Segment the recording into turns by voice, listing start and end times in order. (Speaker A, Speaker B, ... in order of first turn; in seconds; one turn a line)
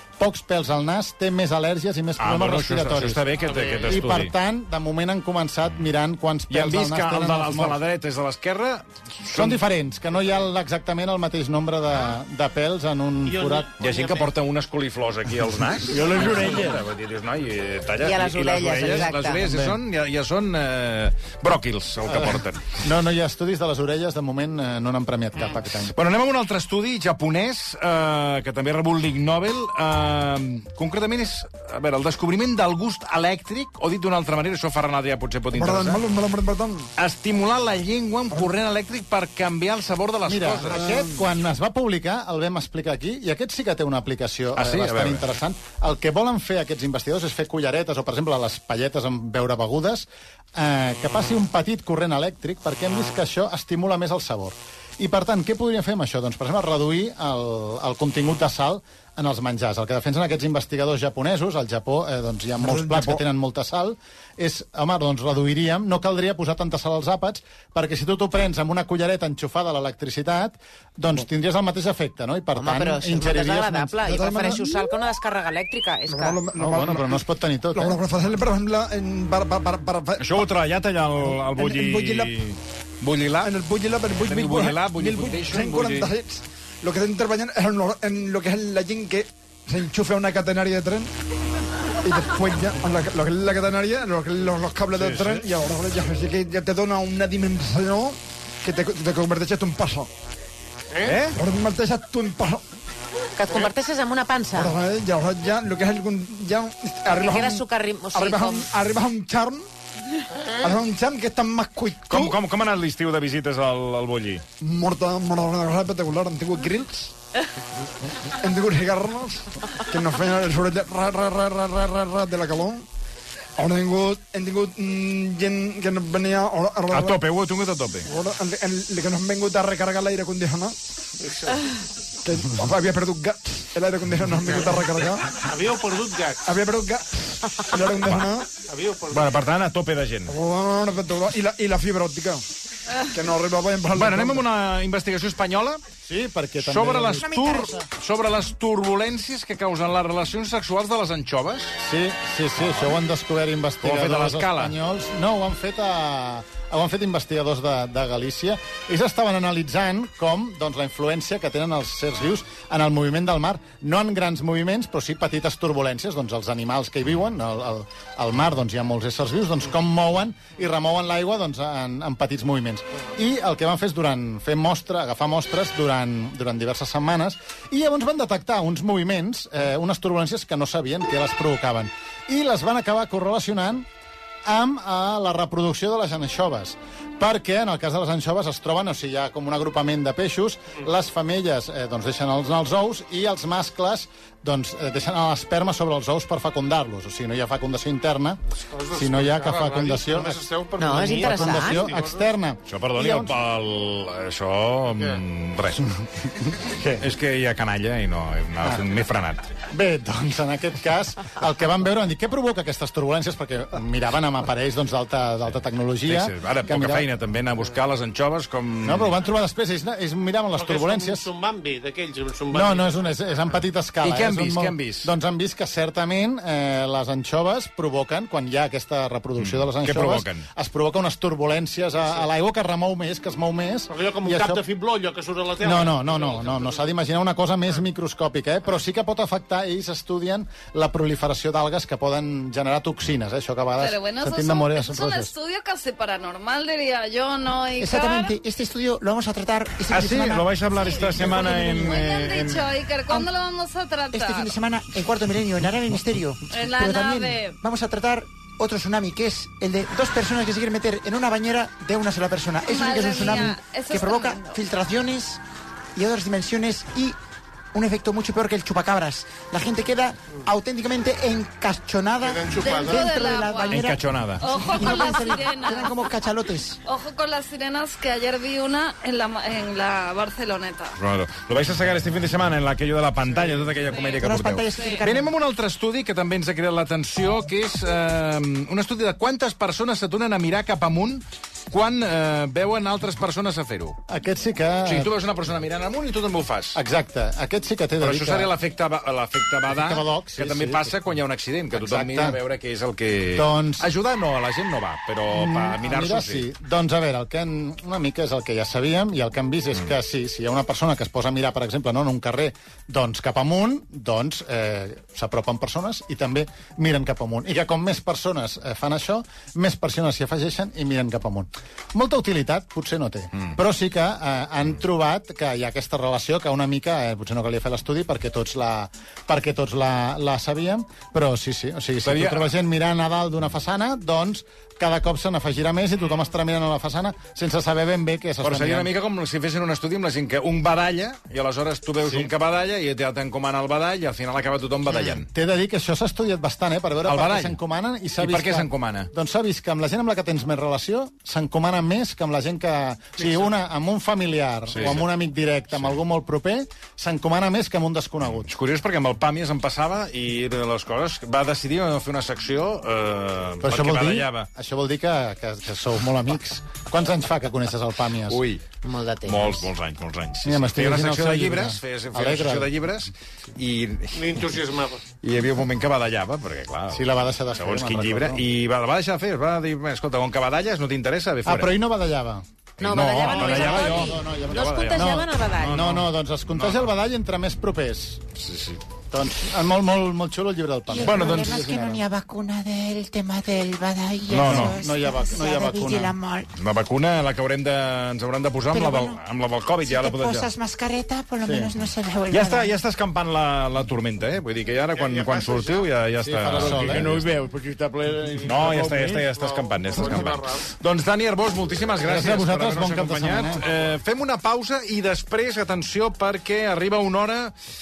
Speaker A: 0.2-7.8
Speaker B: 2.2-4.3
Speaker C: 3.4-4.1
Speaker B: 6.5-9.6
Speaker A: 9.3-13.7
Speaker C: 13.2-14.3
Speaker B: 13.8-22.8
Speaker D: 15.9-16.8
Speaker E: 18.0-19.4
Speaker A: 19.4-19.8
Speaker A: 22.1-25.9
Speaker B: 25.8-36.0
Speaker F: 35.5-36.9
Speaker B: 37.0-40.8
Speaker A: 40.2-74.0
Speaker F: 40.9-41.1
Speaker B: 44.5-45.3
Speaker F: 62.6-63.2
Speaker E: 72.5-76.5
Speaker F: 74.1-74.8
Speaker F: 76.1-77.2
Speaker A: 76.5-78.0
Speaker F: 77.7-80.4
Speaker B: 80.2-83.5
Speaker F: 81.2-82.5
Speaker F: 83.4-91.1
Speaker B: 84.1-86.1
Speaker F: 92.0-100.1
Speaker B: 95.0-95.5
Speaker C: 100.9-101.2
Speaker B: 101.0-101.3
Speaker F: 101.2-102.6
Speaker E: 103.4-104.8
Speaker F: 104.5-109.7
Speaker E: 107.1-108.7
Speaker F: 110.6-112.4
Speaker B: 112.0-114.4
Speaker F: 114.6-117.1
Speaker F: 118.4-122.8
Speaker F: 123.6-127.2
Speaker B: 126.9-128.1
Speaker F: 128.1-130.7
Speaker C: 131.2-131.5
Speaker F: 132.2-135.5
Speaker C: 135.4-136.4
Speaker F: 136.4-138.5
Speaker B: 138.0-138.3
Speaker C: 138.6-139.4
Speaker B: 139.1-140.3
Speaker F: 140.3-142.4
Speaker F: 143.1-144.5
Speaker B: 143.9-145.8
Speaker A: 146.0-147.3
Speaker B: 146.6-151.8
Speaker G: 147.2-147.8
Speaker A: 151.8-183.9
Speaker B: 152.6-153.0
Speaker B: 153.8-154.7
Speaker A: 184.4-198.4
Speaker C: 198.7-202.3
Speaker A: 198.9-200.4
Speaker E: 200.8-201.9
Speaker A: 201.0-203.4
Speaker B: 202.7-205.9
Speaker C: 204.9-205.2
Speaker A: 206.5-207.0
Speaker B: 206.9-209.5
Speaker A: 209.7-217.1
Speaker B: 216.0-219.1
Speaker A: 218.8-221.3
Speaker C: 220.5-223.1
Speaker A: 222.5-234.6
Speaker B: 224.0-225.1
Speaker B: 229.4-230.5
Speaker C: 233.9-236.9
Speaker A: 235.6-245.3
Speaker H: 243.8-248.4
Speaker G: 247.8-250.5
Speaker B: 249.9-252.7
Speaker H: 250.7-254.5
Speaker G: 254.1-265.4
Speaker H: 256.5-257.6
Speaker H: 262.7-264.6
Speaker G: 265.9-267.1
Speaker G: 267.7-276.8
Speaker C: 272.2-273.1
Speaker H: 272.5-273.9
Speaker B: 273.7-274.4
Speaker H: 274.4-275.9
Speaker H: 276.8-281.0
Speaker B: 281.0-294.0
Speaker H: 283.9-284.2
Speaker G: 284.2-285.3
Speaker H: 284.8-285.0
Speaker A: 294.1-295.1
Speaker B: 294.8-296.8
Speaker A: 296.7-298.5
Speaker B: 298.0-306.5
Speaker A: 299.7-300.9
Speaker A: 301.7-302.4
Speaker A: 303.3-303.9
Speaker A: 305.3-338.9
Speaker B: 332.0-332.5
Speaker B: 338.4-345.3
Speaker A: 342.0-342.3
Speaker A: 345.3-358.5
Speaker B: 347.0-347.6
Speaker B: 348.2-349.1
Speaker B: 354.7-355.1
Speaker B: 355.7-356.0
Speaker B: 358.3-364.5
Speaker A: 363.6-368.4
Speaker B: 368.3-368.6
Speaker E: 368.8-369.7
Speaker B: 369.2-374.6
Speaker A: 370.4-372.7
Speaker C: 374.1-375.0
Speaker B: 375.2-381.8
Speaker A: 376.9-378.4
Speaker A: 381.4-382.4
Speaker E: 382.8-385.8
Speaker B: 382.8-386.9
Speaker A: 383.3-388.2
Speaker B: 388.4-388.8
Speaker A: 389.1-392.0
Speaker G: 390.9-396.5
Speaker B: 391.0-391.7
Speaker B: 394.3-394.8
Speaker A: 394.4-396.2
Speaker B: 396.6-400.5
Speaker G: 398.7-399.2
Speaker G: 399.8-402.7
Speaker A: 401.4-401.7
Speaker B: 402.3-407.2
Speaker C: 404.9-405.9
Speaker A: 406.2-407.1
Speaker G: 406.6-407.3
Speaker D: 407.0-409.3
Speaker B: 408.4-417.5
Speaker C: 409.3-410.6
Speaker A: 412.0-413.7